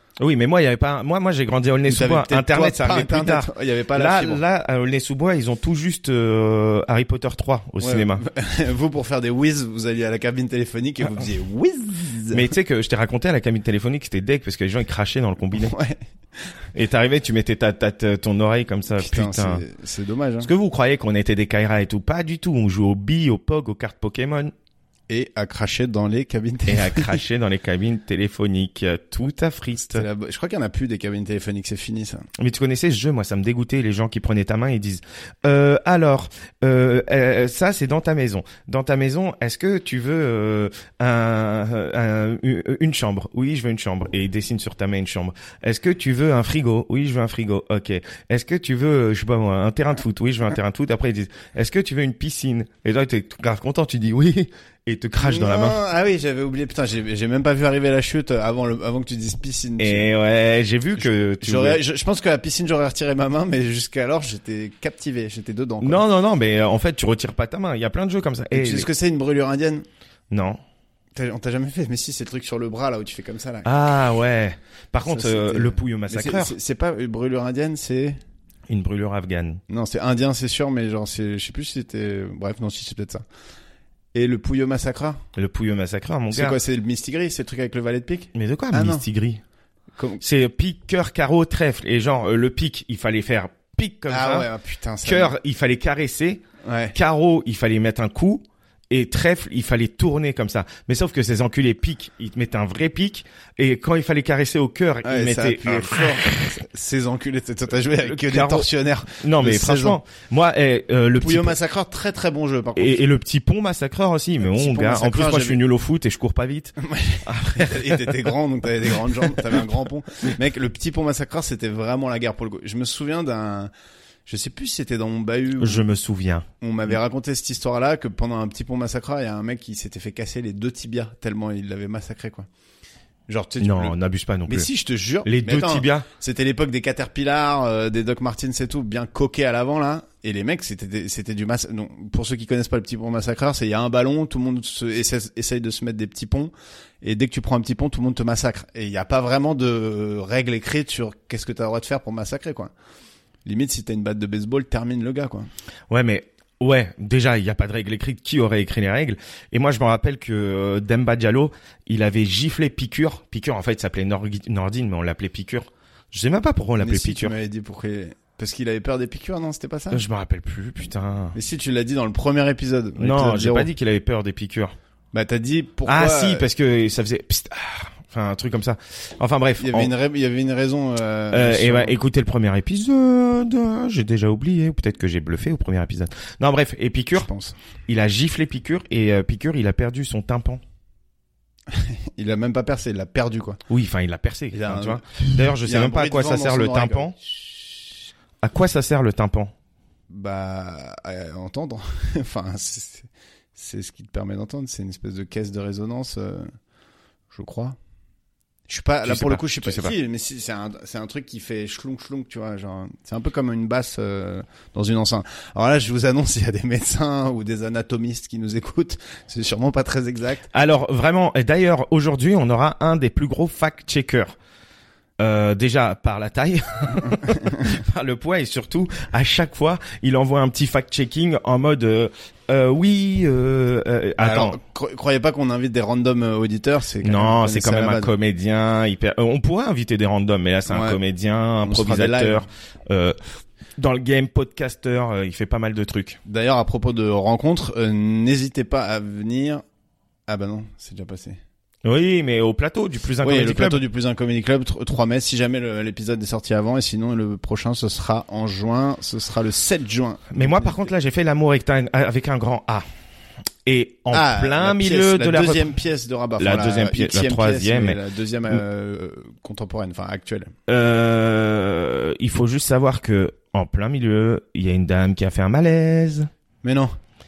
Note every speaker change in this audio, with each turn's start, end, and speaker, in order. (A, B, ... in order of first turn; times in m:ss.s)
0:00.2-0:08.2 A
0:01.9-0:04.4 B
0:07.8-0:12.5 B
0:12.3-0:15.8 A
0:15.6-0:16.0 B
0:16.8-0:19.6 A
0:19.0-0:20.5 B
0:20.4-0:24.5 A
0:25.1-0:27.2 B
0:26.7-0:30.1 A
0:29.8-0:32.3 B
0:32.4-0:55.8 A
0:55.2-1:00.1 B
0:59.8-1:01.8 A
1:01.4-1:06.0 B
1:05.8-1:08.9 A
1:08.5-1:09.8 B
1:10.3-1:10.6 A
1:11.2-1:13.7 B
1:13.6-1:16.5 A
1:15.0-1:18.2 B
1:18.7-1:19.6 A
1:19.7-1:23.2 B
1:24.1-1:25.2 B
1:25.4-1:26.6 A
1:26.3-1:29.0 B
1:28.3-1:29.4 A
1:30.0-1:30.2 B
1:30.2-1:34.5 A
1:34.1-1:35.3 B
1:35.0-1:36.4 A
1:36.6-1:37.0 B
1:36.9-1:46.6 A
1:45.0-1:50.0 B
1:48.0-1:51.6 A
1:51.2-1:53.0 B
1:52.8-1:58.3 A
1:54.4-1:55.6 B
1:56.8-2:03.7 B
1:59.2-1:59.6 A
2:04.3-2:05.9 B
2:05.6-2:06.5 A
2:06.6-2:12.5 B
2:13.3-2:14.0 B
2:13.6-2:14.7 A
2:14.5-2:32.7 B
2:15.2-2:16.1 A
2:33.4-2:35.5 B
2:35.9-2:47.3 A
2:46.8-2:50.0 B
2:49.9-2:51.4 A
2:51.4-2:53.7 B
2:53.0-2:54.8 A
2:55.1-2:56.5 B
2:55.9-2:59.9 A
2:59.6-3:02.0 B
3:01.3-3:07.3 A
3:07.2-3:07.6 B
3:07.9-3:10.6 A
3:11.7-3:13.6 B
3:13.7-3:17.2 A
3:14.5-3:17.2 B
3:18.4-3:19.5 A
3:20.1-3:26.5 B
3:27.3-3:27.8 B
3:28.7-3:40.5 B
3:29.0-3:29.9 A
3:40.5-3:44.4 A
3:45.2-3:54.6 A
3:54.2-3:58.1 B
3:57.0-4:03.2 A
4:00.7-4:01.0 B
4:01.6-4:02.4 B
4:03.8-4:06.2 A
4:06.3-4:09.6 B
4:10.3-4:11.4 B
4:11.8-4:13.8 A
4:13.2-4:20.9 B
4:20.3-4:22.8 A
4:23.7-4:25.8 A
4:24.1-4:30.5 B
4:26.4-4:28.6 A
4:30.7-4:36.3 A
4:36.6-4:37.0 B